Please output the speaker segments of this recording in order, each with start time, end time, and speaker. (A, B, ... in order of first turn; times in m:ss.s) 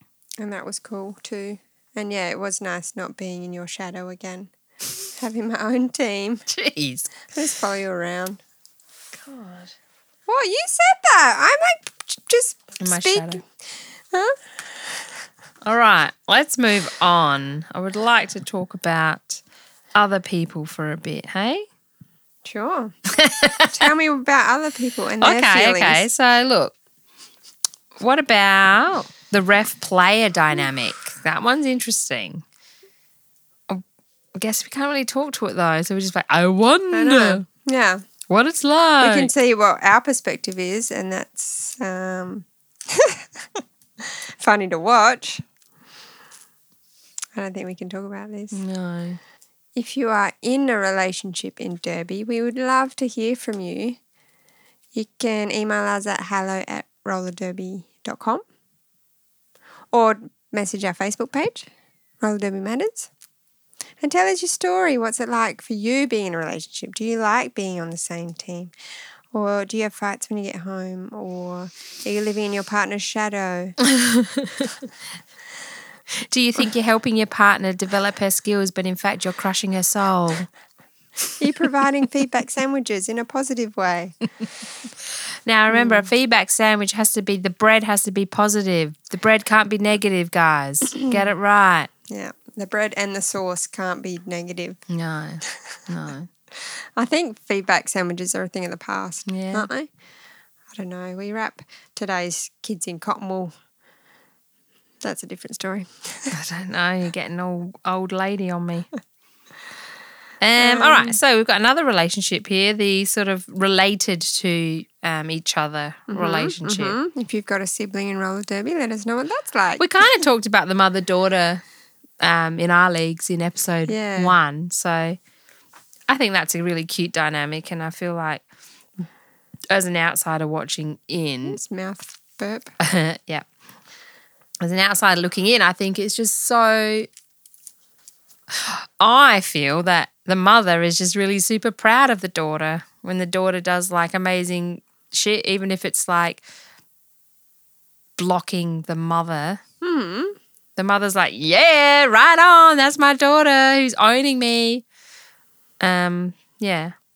0:00.4-0:04.5 A
0:05.2-0:06.5 A
0:06.5-0:07.1 B
0:07.3-0:08.4 A
0:09.1-0:09.7 B
0:10.3-0:13.4 A
0:12.8-0:13.4 B
0:14.1-0:14.4 A
0:15.6-0:19.4 B
0:20.0-0:21.7 B
0:22.4-0:23.0 A
0:23.1-0:23.9 B
0:23.7-0:26.1 A
0:25.2-0:26.8 B
0:28.0-0:32.4 B
0:34.4-0:37.4 B
0:36.9-0:38.0 A
0:38.3-0:39.3 B
0:39.0-0:45.4 A
0:47.4-0:48.6 A
0:48.5-0:49.2 B
0:49.8-0:54.0 A
0:54.9-0:58.4 A
0:59.9-1:01.7 A
1:02.2-1:03.1 A
1:04.0-1:08.7 A
1:09.3-1:13.8 A
1:13.8-1:14.7 B
1:16.2-1:20.5 B
1:21.4-1:24.2 A
1:25.4-1:31.9 B
1:25.7-1:26.1 A
1:32.1-1:34.8 A
1:34.9-1:36.3 B
1:36.6-1:39.9 A
1:39.3-1:39.7 B
1:40.7-1:43.5 A
1:45.0-1:46.4 A
1:46.3-1:48.9 B
1:50.4-1:57.0 B
1:50.6-1:51.2 A
1:56.1-2:00.1 A
1:59.8-2:01.6 B
2:02.2-2:05.2 B
2:03.9-2:04.4 A
2:06.1-2:08.4 B
2:09.7-2:11.6 B
2:11.5-2:12.7 A
2:12.8-2:13.5 B
2:14.6-2:17.1 B
2:18.5-2:26.4 B
2:28.2-2:29.6 B
2:29.8-2:30.4 A
2:30.8-2:34.8 B
2:35.8-2:36.9 B